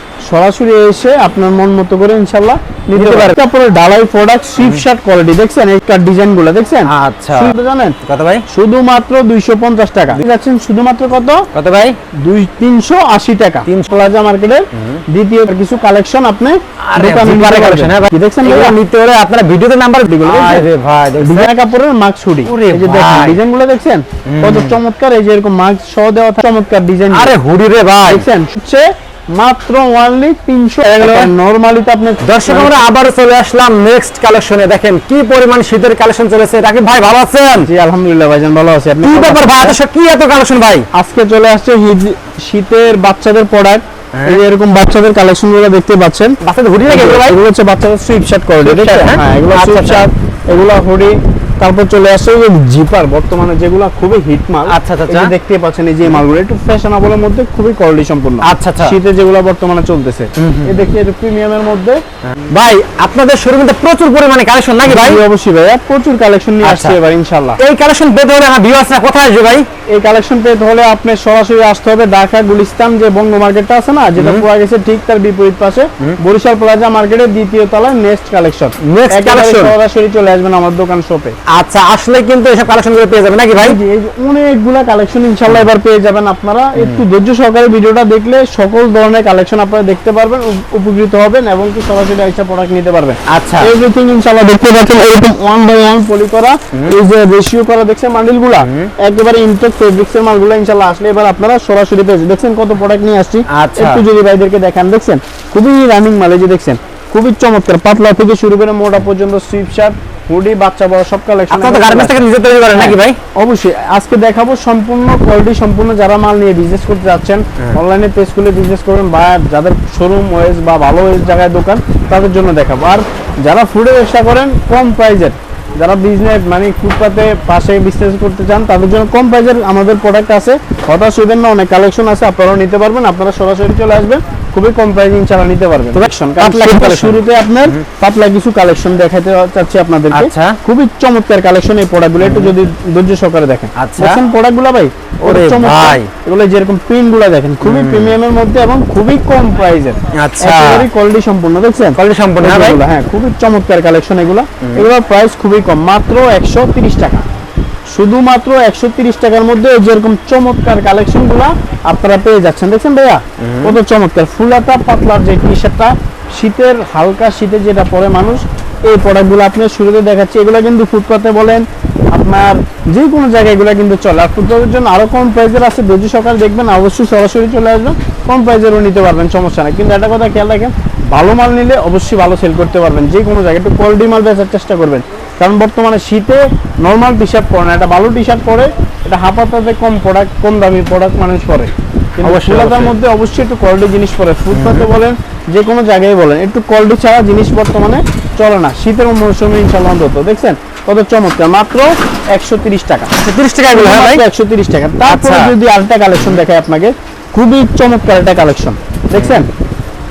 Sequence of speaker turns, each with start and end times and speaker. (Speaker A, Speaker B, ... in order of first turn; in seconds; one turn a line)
Speaker A: 0.2-8.0
Speaker B: 3.0-3.4
Speaker B: 4.6-4.8
Speaker B: 6.9-8.4
Speaker A: 8.5-11.5
Speaker B: 11.5-12.0
Speaker A: 12.2-18.8
Speaker B: 13.7-13.9
Speaker B: 14.7-15.0
Speaker B: 16.8-21.5
Speaker A: 20.1-20.7
Speaker A: 21.2-27.3
Speaker B: 22.4-23.4
Speaker B: 24.2-24.8
Speaker B: 27.1-28.2
Speaker A: 28.1-32.8
Speaker B: 30.9-31.3
Speaker B: 32.2-37.7
Speaker A: 37.6-39.8
Speaker B: 39.0-40.9
Speaker A: 40.9-62.0
Speaker B: 44.1-44.4
Speaker B: 46.4-47.4
Speaker B: 48.6-50.1
Speaker B: 54.7-55.3
Speaker B: 58.4-59.0
Speaker B: 60.4-60.8
Speaker B: 62.2-65.2
Speaker A: 64.8-67.6
Speaker B: 66.6-67.0
Speaker B: 67.6-69.7
Speaker A: 69.9-81.3
Speaker B: 74.2-74.5
Speaker B: 78.8-79.7
Speaker B: 81.5-83.8
Speaker A: 83.6-157.2
Speaker B: 86.8-87.0
Speaker B: 93.3-93.7
Speaker B: 98.6-98.9
Speaker B: 103.5-104.0
Speaker B: 111.5-113.2
Speaker B: 135.9-137.8
Speaker B: 140.1-140.6
Speaker B: 142.2-142.5
Speaker B: 143.8-144.2
Speaker B: 145.2-146.1
Speaker B: 147.6-148.2
Speaker B: 150.1-150.9
Speaker B: 152.0-152.8
Speaker B: 154.6-154.9
Speaker A: 157.9-203.1
Speaker B: 163.4-163.8
Speaker B: 192.2-193.0
Speaker B: 194.5-194.9
Speaker B: 203.2-204.2
Speaker A: 203.7-209.5
Speaker B: 205.0-205.6
Speaker B: 209.2-209.5